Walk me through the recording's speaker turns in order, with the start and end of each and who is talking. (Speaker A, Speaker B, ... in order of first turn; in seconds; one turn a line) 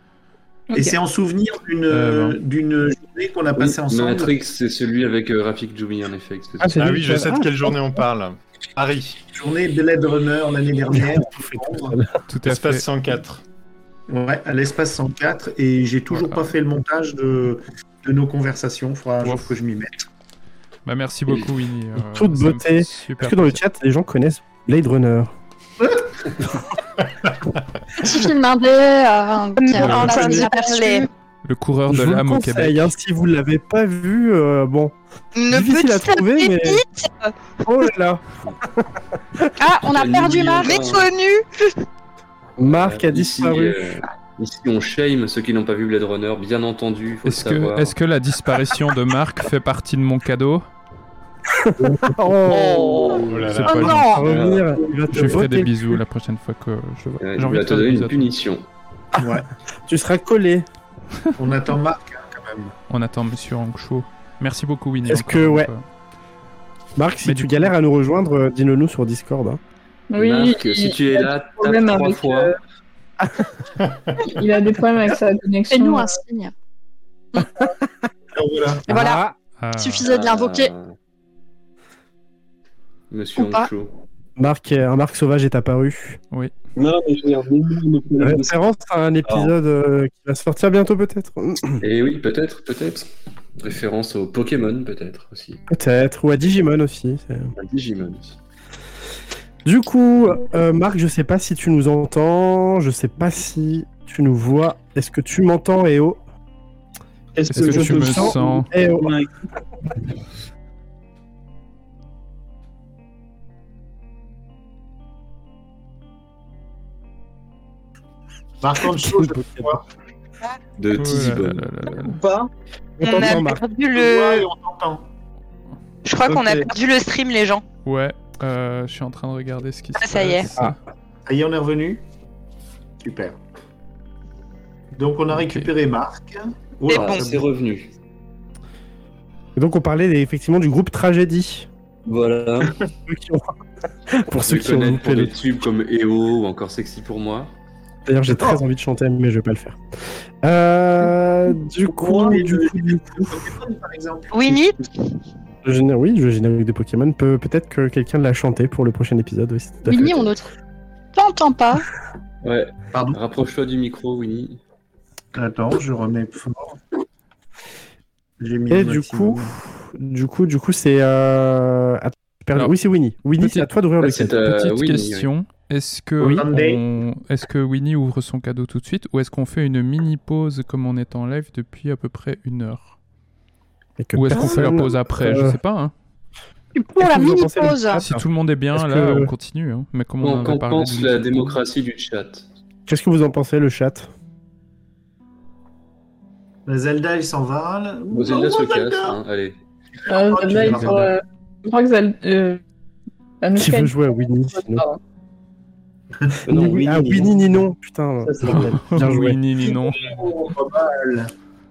Speaker A: 0.7-1.0
Speaker B: 0.7-4.3
Speaker C: 1.9-2.4
Speaker D: 3.6-6.9
Speaker E: 6.6-8.0
Speaker F: 6.8-9.2
Speaker B: 9.3-12.0
Speaker E: 10.9-12.2
Speaker C: 12.3-12.9
Speaker F: 12.4-13.4
Speaker B: 14.1-20.1
Speaker C: 16.1-16.5
Speaker C: 19.2-19.6
Speaker C: 20.9-23.6
Speaker E: 22.0-25.3
Speaker B: 25.8-26.1
Speaker G: 28.0-31.1
Speaker H: 29.8-31.1
Speaker C: 29.8-30.1
Speaker E: 29.8-30.4
Speaker C: 31.4-32.9
Speaker E: 31.9-35.0
Speaker H: 35.4-37.4
Speaker E: 35.5-36.8
Speaker E: 37.6-39.5
Speaker G: 39.6-41.0
Speaker D: 39.8-41.1
Speaker H: 40.6-41.7
Speaker E: 42.6-44.0
Speaker D: 42.6-48.0
Speaker C: 47.2-50.7
Speaker E: 51.5-56.0
Speaker H: 52.5-53.2
Speaker F: 53.3-54.0
Speaker C: 53.5-54.2
Speaker G: 53.7-54.2
Speaker D: 54.2-54.7
Speaker C: 55.1-58.3
Speaker D: 57.2-58.6
Speaker B: 59.2-59.5
Speaker E: 59.9-60.7
Speaker B: 61.4-62.8
Speaker C: 62.9-65.8
Speaker E: 65.0-65.7
Speaker E: 67.0-69.6
Speaker C: 67.2-67.7
Speaker A: 70.1-72.6
Speaker D: 70.2-72.5
Speaker E: 73.2-73.5
Speaker A: 74.2-76.2
Speaker G: 75.7-76.5
Speaker E: 77.4-77.7
Speaker B: 78.3-78.9
Speaker E: 78.9-79.3
Speaker G: 78.9-79.2
Speaker C: 79.6-80.0
Speaker G: 79.8-80.7
Speaker D: 80.0-80.9
Speaker D: 83.1-83.9
Speaker G: 83.4-83.7
Speaker E: 84.4-86.2
Speaker I: 86.8-88.6
Speaker E: 88.2-91.8
Speaker D: 89.3-89.5
Speaker D: 91.8-93.1
Speaker D: 93.6-95.6
Speaker E: 95.7-97.5
Speaker D: 97.5-98.4
Speaker E: 99.7-106.2
Speaker I: 107.3-109.4
Speaker C: 107.5-108.7
Speaker E: 107.5-109.1
Speaker B: 118.6-119.8
Speaker E: 119.0-119.8
Speaker D: 120.8-122.0
Speaker C: 121.0-122.2
Speaker I: 122.0-122.5
Speaker E: 123.0-123.6
Speaker H: 123.0-124.5
Speaker B: 123.9-125.1
Speaker H: 126.0-127.6
Speaker I: 126.3-126.7
Speaker C: 127.8-130.8
Speaker H: 130.0-130.5
Speaker B: 131.3-132.0
Speaker B: 133.0-133.4
Speaker B: 135.0-137.5
Speaker C: 135.3-135.7
Speaker H: 136.9-137.3
Speaker D: 136.9-137.9
Speaker E: 139.6-141.7
Speaker D: 142.1-142.8
Speaker E: 143.1-143.5
Speaker E: 144.1-145.4
Speaker D: 144.5-147.5
Speaker E: 148.1-149.8
Speaker E: 150.4-153.5
Speaker I: 151.9-152.8
Speaker B: 152.2-154.7
Speaker H: 154.3-154.8
Speaker E: 155.6-160.3
Speaker G: 159.9-160.5
Speaker G: 161.2-161.8
Speaker D: 162.4-164.6
Speaker B: 162.9-163.2
Speaker B: 165.3-166.8
Speaker B: 168.4-169.5
Speaker E: 168.7-174.4
Speaker C: 173.4-173.7
Speaker D: 174.0-175.3
Speaker C: 174.3-182.9
Speaker B: 176.2-176.8
Speaker E: 184.0-185.6
Speaker C: 184.1-185.9
Speaker E: 186.8-189.3
Speaker G: 187.0-188.0
Speaker C: 187.9-191.6
Speaker D: 190.2-192.5
Speaker E: 192.9-194.1
Speaker B: 196.7-199.2
Speaker D: 198.1-199.6
Speaker B: 200.1-201.1
Speaker A: 200.1-202.6
Speaker C: 200.6-201.0
Speaker A: 203.4-205.0
Speaker E: 203.6-204.8
Speaker B: 206.2-207.4
Speaker D: 206.5-207.3
Speaker E: 206.5-209.4
Speaker I: 208.2-208.7
Speaker C: 208.4-210.2
Speaker B: 209.6-211.3